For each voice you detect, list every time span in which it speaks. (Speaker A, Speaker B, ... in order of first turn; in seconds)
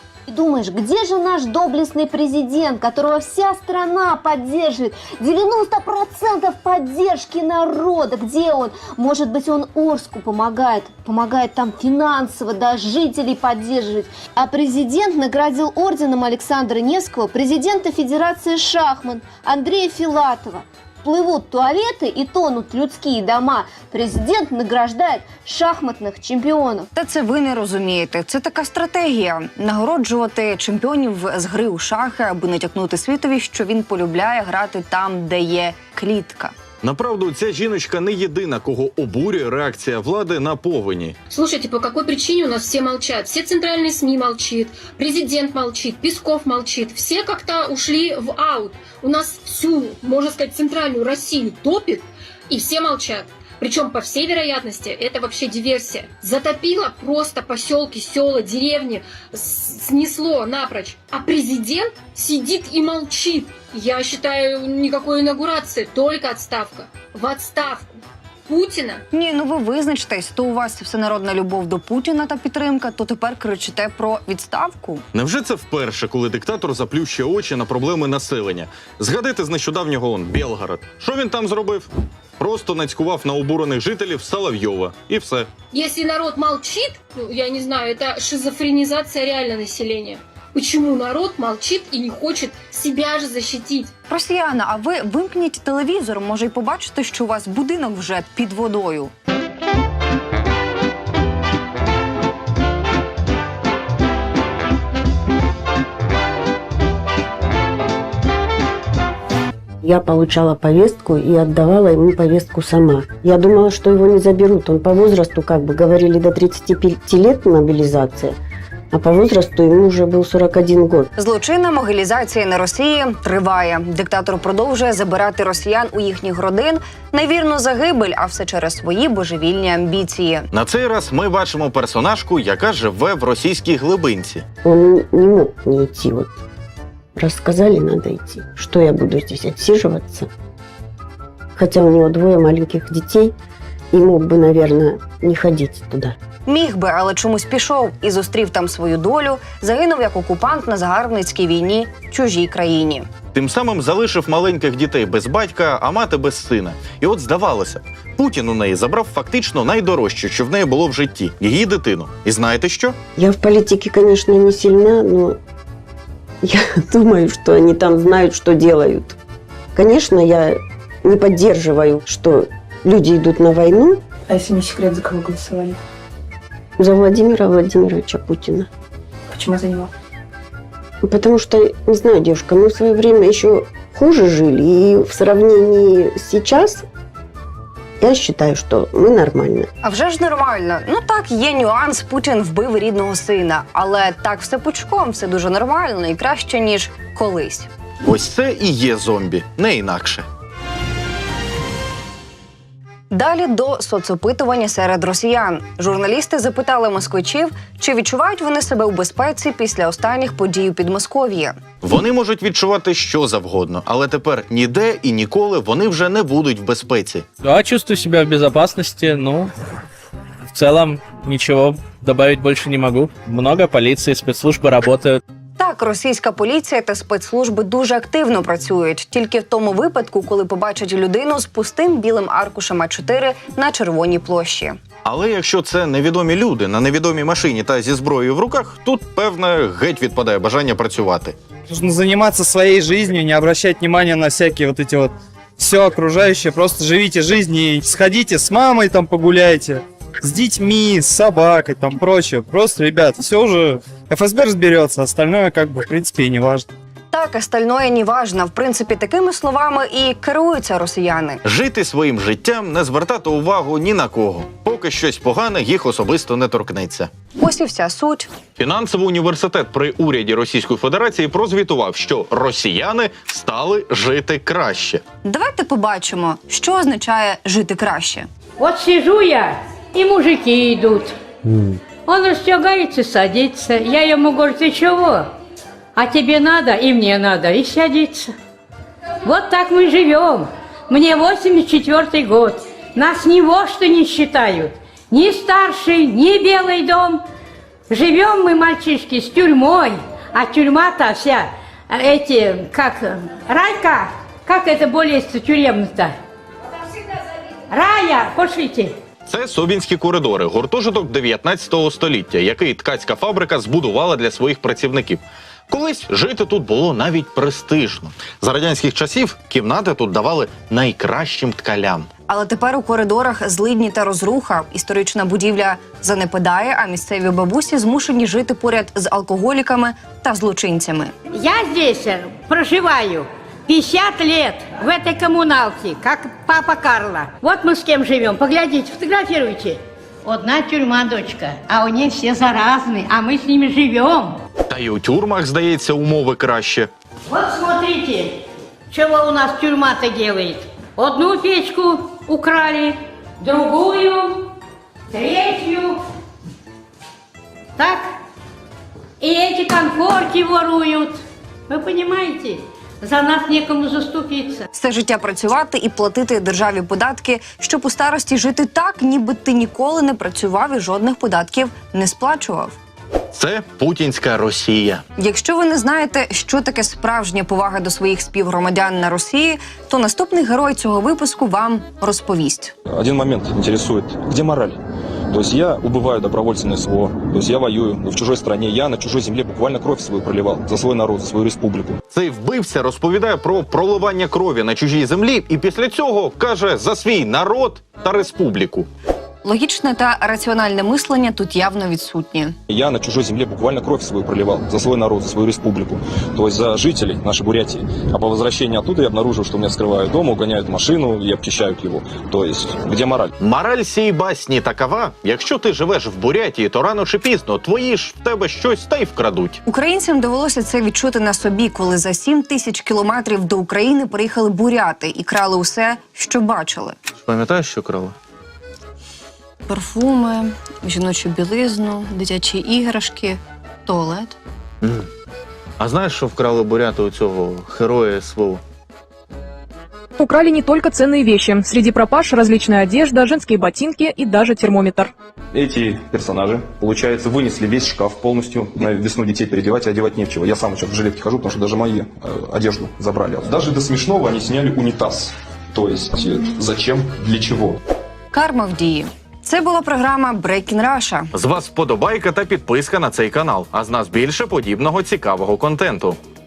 Speaker A: 0.3-26.9
Speaker B: 26.9-36.5, 69.1-75.0, 94.1-99.1, 121.2-130.5, 146.5-153.1, 189.8-197.7, 203.1-211.6, 225.6-234.8, 257.1-261.4, 267.4-268.3, 275.2-278.3, 322.3-331.1, 364.7-372.8, 375.2-382.7, 399.4-402.6, 419.7-427.0, 429.7-434.4, 458.3-461.3
Speaker C: 36.8-41.2, 75.1-81.9, 82.4-85.5, 130.5-134.4, 153.3-163.0, 198.0-200.3, 211.8-217.2, 235.0-241.4, 261.4-267.1, 268.6-275.0, 309.3-322.1, 344.7-346.9, 373.3-375.0, 392.1-398.9, 413.4-419.6, 427.2-428.1, 434.8-435.1, 435.8-438.6, 461.3-466.2
Speaker D: 41.3-67.9, 68.5-69.0, 85.7-93.9
Speaker E: 109.8-118.3, 118.9-121.1, 134.6-136.4, 137.2-140.3, 141.6-143.3, 143.9-146.2, 163.2-165.4, 166.4-169.2, 169.8-174.0, 176.8-178.7, 181.0-186.8, 188.0-189.7
Speaker F: 174.2-175.8, 179.3-179.9
Speaker G: 217.4-219.5, 220.5-225.2
Speaker H: 241.7-256.6
Speaker I: 278.6-281.1, 282.0-285.3, 286.0-288.3, 289.2-297.2, 297.9-306.1, 307.7-308.9, 331.3-344.4, 347.3-348.4, 348.9-354.5, 355.1-356.0, 357.8-358.1, 359.2-364.7
Speaker J: 382.9-384.8, 385.3-392.0, 402.7-413.3, 445.5-457.8
Speaker K: 440.2-445.1